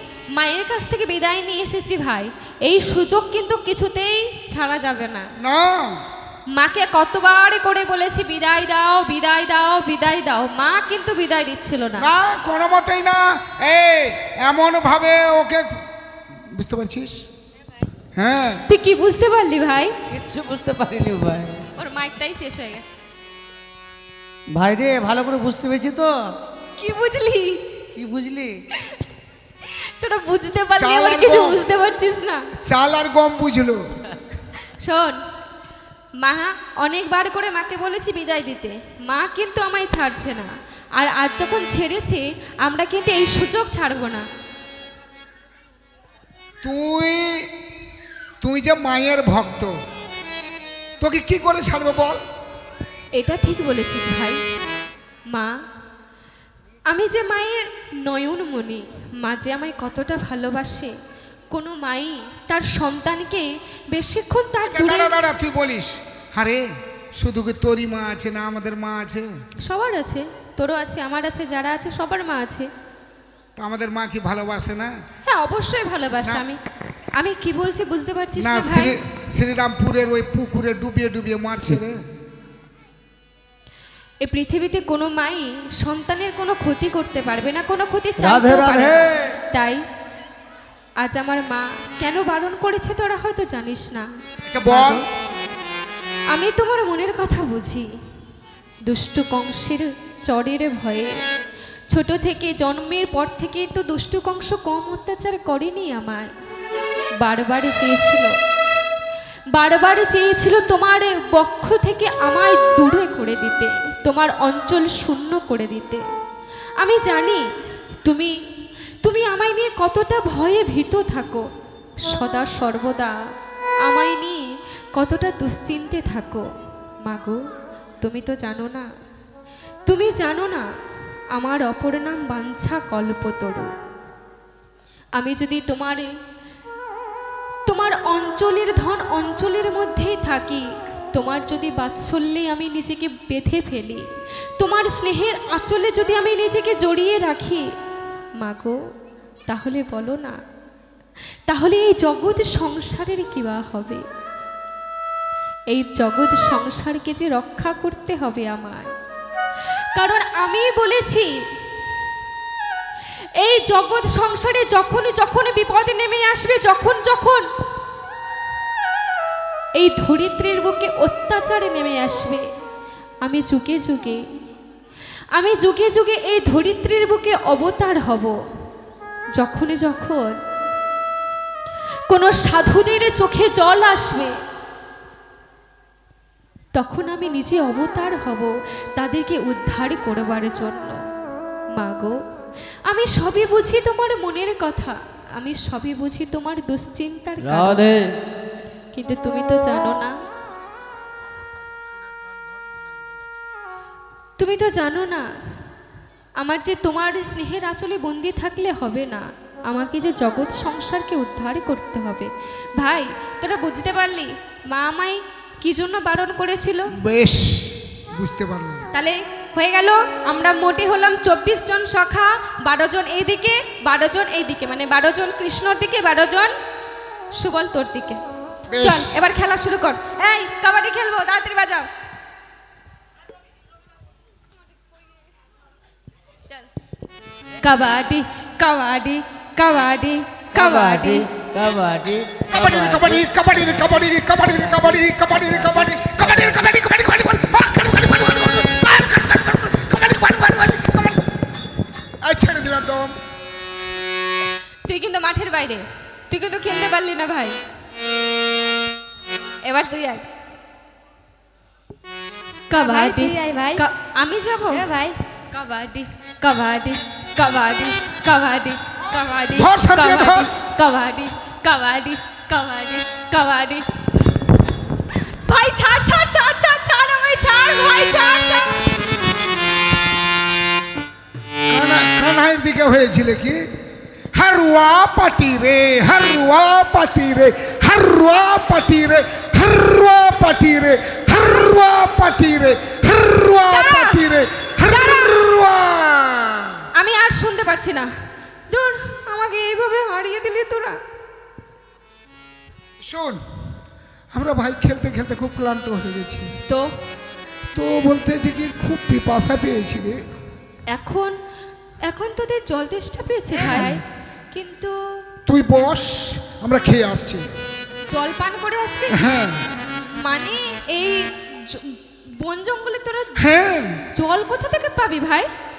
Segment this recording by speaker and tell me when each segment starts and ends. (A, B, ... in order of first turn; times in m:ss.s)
0:00.4-0:05.3 A
0:05.4-0:06.0 B
0:06.6-0:12.1 A
0:12.0-0:15.7 B
0:16.6-0:17.2 B
0:18.2-0:18.6 B
0:18.7-0:19.9 A
0:20.1-0:21.6 C
0:21.8-0:23.0 A
0:24.6-0:26.1 D
0:26.8-0:27.6 A
0:27.9-0:28.5 D
0:30.0-0:32.4 A
0:30.8-0:31.6 B
0:32.6-0:33.8 B
0:34.8-0:35.2 A
0:36.2-0:44.3 A
0:46.6-0:47.5 B
0:48.4-0:49.7 B
0:51.0-0:52.2 B
0:53.2-0:54.4 A
0:56.9-1:00.9 A
1:01.5-1:05.1 A
1:04.7-1:06.7 B
1:07.2-1:09.3 B
1:09.7-1:12.7 A
1:13.6-1:14.9 B
1:15.3-1:16.6 A
1:17.2-1:19.0 A
1:18.4-1:22.0 B
1:24.2-1:29.8 A
1:28.2-1:29.3 D
1:31.0-1:34.1 A
1:34.5-1:35.0 B
1:34.7-1:35.0 A
1:36.3-1:37.9 A
1:38.9-1:41.1 A
1:41.9-1:46.3 A
1:47.2-1:48.3 A
1:49.6-1:56.0 A
1:56.8-1:57.4 A
1:58.0-1:58.3 A
1:59.0-2:01.4 A
2:02.0-2:03.2 A
2:03.9-2:04.4 A
2:05.0-2:06.4 A
2:07.0-2:07.4 A
2:08.0-2:08.8 A
2:09.9-2:10.6 A
2:11.4-2:13.7 A
2:15.2-2:16.1 A
2:17.7-2:24.0 A
2:24.6-2:27.6 A
2:28.4-2:28.8 A
2:29.5-2:30.4 A
2:31.5-2:34.0 A
2:35.7-2:38.9 A
2:40.0-2:41.3 A
2:43.4-2:47.4 A
2:49.8-2:52.4 A
2:53.2-2:54.2 A
2:55.4-2:58.4 A
2:59.4-3:00.4 A
3:02.1-3:04.3 A
3:06.8-3:11.0 A
3:11.8-3:12.2 A
3:12.9-3:17.8 A
3:17.4-3:18.2 C
3:18.9-3:20.1 A
3:24.4-3:25.2 A
3:26.4-3:36.9 A
3:37.0-3:38.9 B
3:38.9-3:46.5 A
3:47.4-3:48.2 A
3:48.7-3:49.1 B
3:48.8-3:51.9 A
3:57.6-4:01.2 A
4:00.5-4:03.2 C
4:02.5-4:11.2 B
4:04.6-4:06.6 C
4:12.2-4:13.2 B
4:14.9-4:17.6 A
4:19.7-4:20.2 A
4:22.7-4:24.9 A
4:22.7-4:23.8 E
4:24.7-4:25.2 E
4:25.5-4:33.8 A
4:29.5-4:30.5 B
4:35.5-4:38.8 A
4:41.7-4:43.6 B
4:44.4-4:56.8 B
4:53.7-4:54.2 A
4:54.8-4:55.4 A
4:57.0-4:58.1 A
4:58.7-5:01.0 A
5:03.1-5:03.4 B
5:04.3-5:06.6 B
5:07.8-5:10.2 B
5:10.9-5:11.3 A
5:12.1-5:15.0 A
5:13.6-5:13.9 E
5:13.6-5:14.0 B
5:15.5-5:17.5 B
5:18.1-5:19.2 A
5:19.1-5:19.6 B
5:20.2-5:23.5 A
5:23.4-5:24.0 B
5:24.2-5:25.5 A